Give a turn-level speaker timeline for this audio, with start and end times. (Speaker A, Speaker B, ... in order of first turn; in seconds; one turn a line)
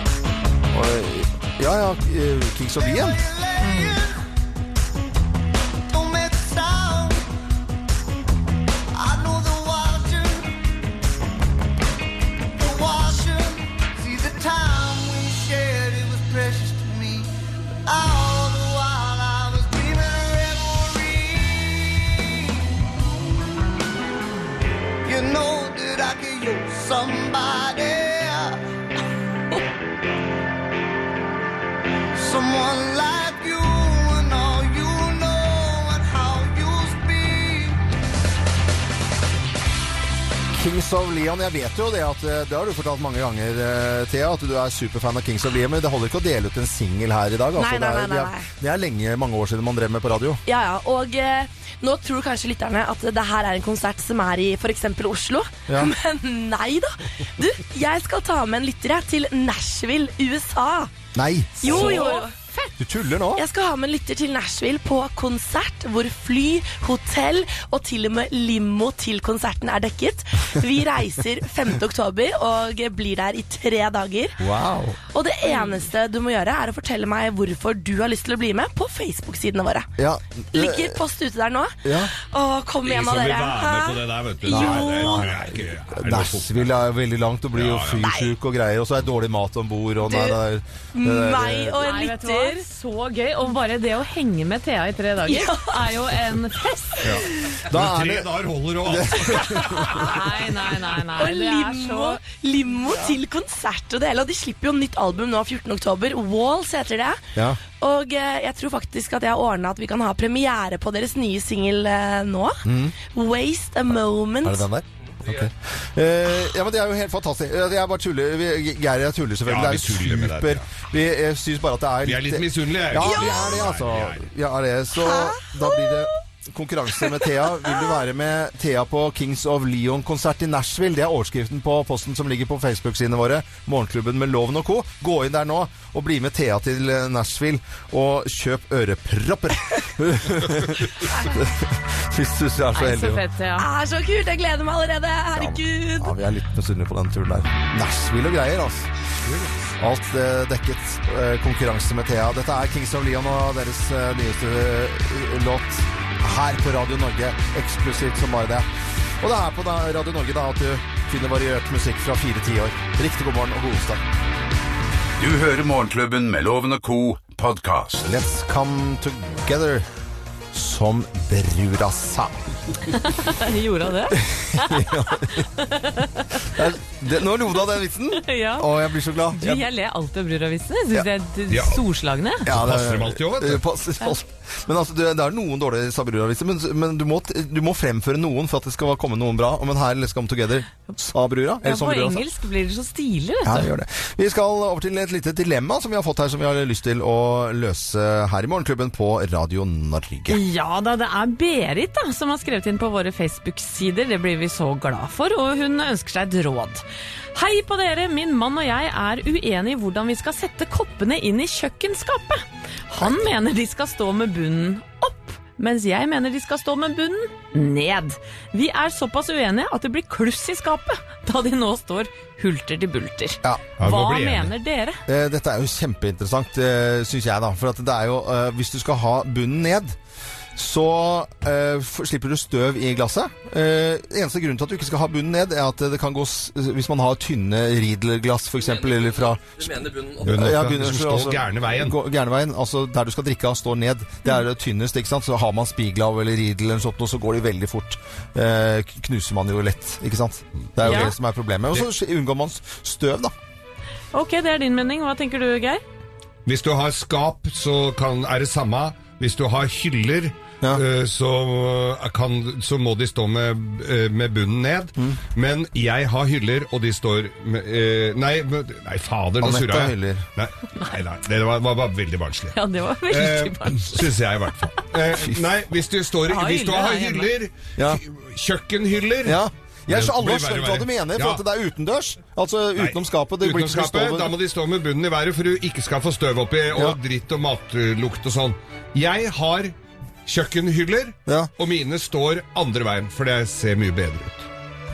Speaker A: 0.7-3.2
Speaker B: 2.8-4.2
Speaker C: 3.6-4.0
Speaker B: 5.9-7.2
Speaker B: 8.9-10.5
Speaker B: 12.6-17.3
Speaker B: 17.9-22.4
Speaker B: 25.0-28.6
Speaker B: 32.1-37.8
Speaker A: 40.5-50.4
Speaker D: 47.5-48.5
Speaker D: 50.5-60.9
Speaker A: 61.1-62.1
Speaker D: 61.6-62.3
Speaker C: 61.6-62.7
Speaker A: 62.8-63.4
Speaker D: 63.3-74.4
Speaker A: 74.4-75.0
Speaker D: 75.1-79.9
Speaker A: 80.0-81.0
Speaker D: 80.5-85.3
Speaker A: 81.8-82.1
Speaker E: 82.8-86.7
Speaker A: 84.5-91.8
Speaker E: 87.5-88.1
Speaker D: 88.0-88.3
Speaker D: 90.0-90.4
Speaker D: 90.9-92.6
Speaker C: 91.8-97.1
Speaker D: 95.2-95.8
Speaker E: 97.0-100.0
Speaker A: 97.7-100.0
Speaker C: 99.5-102.2
Speaker D: 101.2-114.7
Speaker A: 112.6-112.9
Speaker A: 114.4-143.2
Speaker E: 119.5-120.7
Speaker E: 122.0-124.3
Speaker D: 123.0-123.5
Speaker D: 125.0-126.0
Speaker C: 142.7-143.7
Speaker D: 143.6-146.1
Speaker A: 145.3-148.9
Speaker E: 149.2-149.5
Speaker A: 149.8-158.7
Speaker A: 159.2-164.0
Speaker F: 165.2-168.1
Speaker A: 168.0-169.8
Speaker A: 170.5-172.4
Speaker C: 172.9-176.5
Speaker A: 174.1-175.5
Speaker A: 176.4-179.7
Speaker C: 178.2-178.7
Speaker C: 179.3-182.5
Speaker E: 181.5-181.8
Speaker E: 182.4-183.6
Speaker A: 182.4-192.2
Speaker C: 191.6-193.7
Speaker A: 193.4-200.4
Speaker C: 200.3-206.8
Speaker C: 207.3-225.0
Speaker E: 223.8-224.5
Speaker A: 225.1-229.9
Speaker A: 230.6-239.4
Speaker E: 240.2-241.9
Speaker A: 240.2-253.3
Speaker E: 250.8-251.1
Speaker C: 250.8-251.1
Speaker C: 254.1-255.8
Speaker E: 256.4-272.6
Speaker A: 269.4-270.2
Speaker C: 272.5-274.0
Speaker E: 273.1-281.4
Speaker A: 275.1-275.5
Speaker C: 276.3-277.3
Speaker A: 279.2-284.3
Speaker E: 282.8-289.7
Speaker E: 290.2-294.5
Speaker A: 291.2-291.5